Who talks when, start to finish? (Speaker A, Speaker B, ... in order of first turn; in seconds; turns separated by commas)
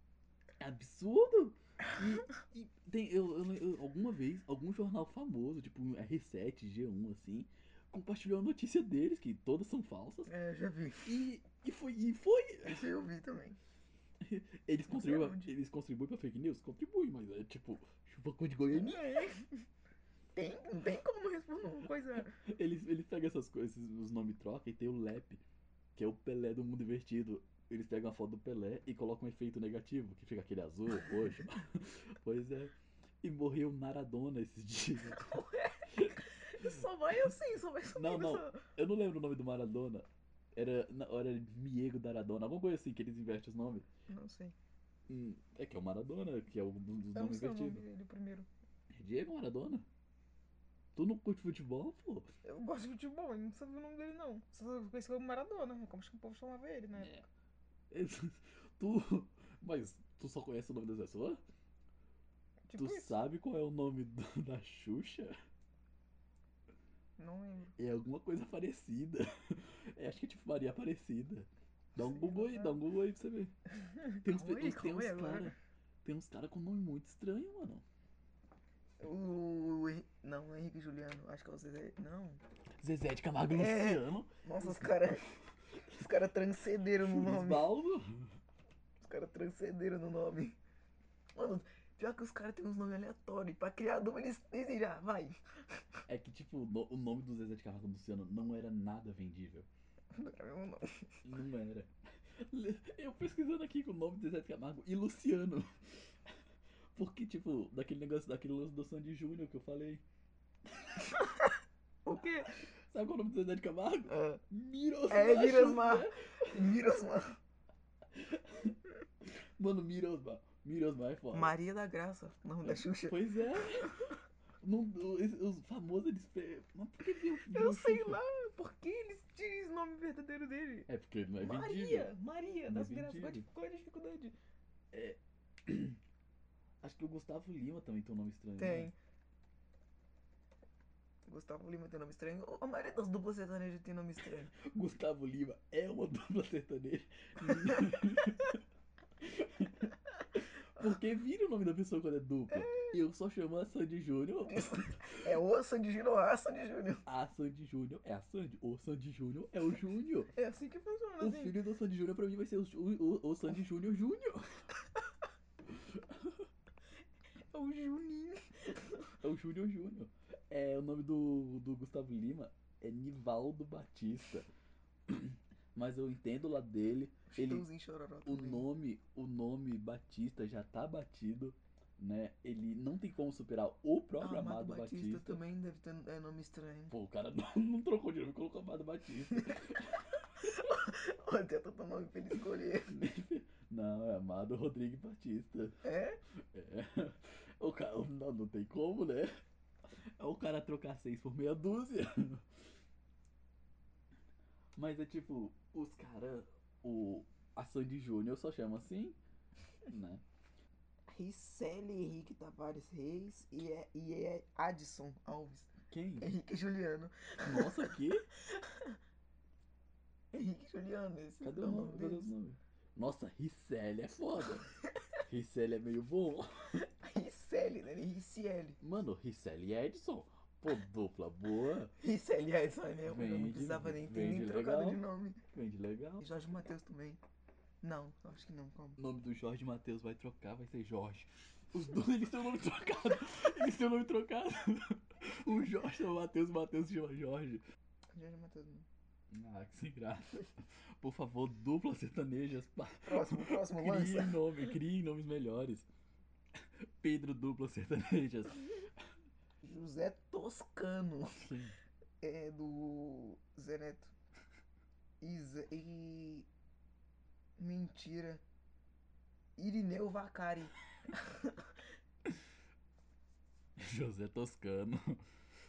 Speaker A: 0.6-10.3, Speaker B: 10.3-11.2, Speaker A: 11.0-12.8, Speaker B: 12.7-13.6, Speaker A: 14.2-19.1, Speaker B: 14.9-15.5, Speaker B: 18.7-19.6, Speaker B: 20.4-22.4, Speaker A: 22.3-25.4, Speaker A: 25.9-35.4, Speaker B: 35.1-38.6, Speaker A: 35.9-36.8, Speaker A: 37.9-43.9, Speaker B: 44.1-44.6, Speaker A: 45.1-47.8, Speaker B: 47.1-48.5, Speaker A: 48.9-49.9, Speaker A: 51.0-52.3, Speaker B: 52.4-57.2, Speaker A: 57.0-57.3, Speaker A: 57.9-61.4, Speaker B: 62.6-63.2, Speaker A: 62.8-65.3, Speaker B: 67.2-67.8, Speaker A: 67.8-73.5, Speaker B: 72.0-72.8, Speaker B: 73.8-75.5, Speaker A: 74.2-77.8, Speaker B: 79.0-82.4, Speaker A: 82.8-85.1, Speaker B: 83.5-85.2, Speaker B: 85.9-87.7, Speaker A: 87.0-88.3, Speaker B: 89.0-90.6, Speaker B: 91.3-95.4, Speaker A: 96.1-99.7, Speaker B: 100.1-101.2, Speaker A: 101.2-106.2, Speaker A: 107.0-110.0, Speaker A: 110.7-111.2, Speaker B: 111.2-111.5, Speaker B: 112.0-112.5, Speaker A: 112.5-116.7, Speaker B: 114.1-114.4, Speaker B: 115.1-117.4, Speaker A: 118.1-121.5, Speaker B: 121.3-124.1, Speaker A: 122.6-124.0, Speaker A: 124.6-128.2, Speaker B: 127.4-130.9, Speaker A: 130.9-132.1, Speaker B: 131.4-134.3, Speaker A: 132.7-133.5, Speaker A: 134.9-136.0, Speaker A: 136.8-138.9, Speaker B: 138.6-138.9, Speaker B: 141.3-144.5, Speaker A: 144.5-148.6, Speaker B: 147.5-148.3, Speaker A: 149.2-155.3, Speaker B: 152.5-152.9, Speaker B: 154.4-157.0, Speaker A: 157.1-160.3, Speaker B: 160.3-161.6, Speaker A: 161.2-164.7, Speaker A: 165.7-166.4, Speaker B: 167.5-169.2, Speaker A: 169.2-174.5, Speaker A: 175.1-177.7, Speaker B: 177.3-178.7, Speaker A: 178.2-185.4, Speaker B: 184.2-186.9, Speaker A: 186.9-190.6, Speaker B: 189.3-189.8, Speaker B: 190.4-192.9, Speaker A: 192.9-195.8, Speaker B: 195.8-196.2, Speaker A: 196.5-199.3, Speaker A: 200.2-202.5, Speaker A: 204.8-209.2, Speaker A: 209.9-210.2, Speaker B: 211.1-219.0, Speaker A: 215.9-216.3, Speaker A: 217.4-218.3, Speaker B: 220.3-222.3, Speaker A: 221.4-224.7, Speaker A: 225.3-226.8, Speaker B: 226.7-228.8, Speaker A: 228.8-231.9, Speaker B: 232.0-235.4, Speaker A: 233.1-236.2, Speaker B: 236.2-237.2, Speaker B: 237.8-239.0, Speaker A: 239.0-247.6, Speaker B: 248.1-248.9, Speaker A: 249.3-255.9, Speaker B: 253.1-254.7, Speaker A: 257.0-258.8, Speaker B: 259.6-261.4, Speaker A: 261.3-261.8, Speaker B: 262.2-264.1, Speaker B: 265.2-266.5, Speaker B: 267.6-268.4, Speaker B: 269.6-271.7, Speaker A: 273.8-275.2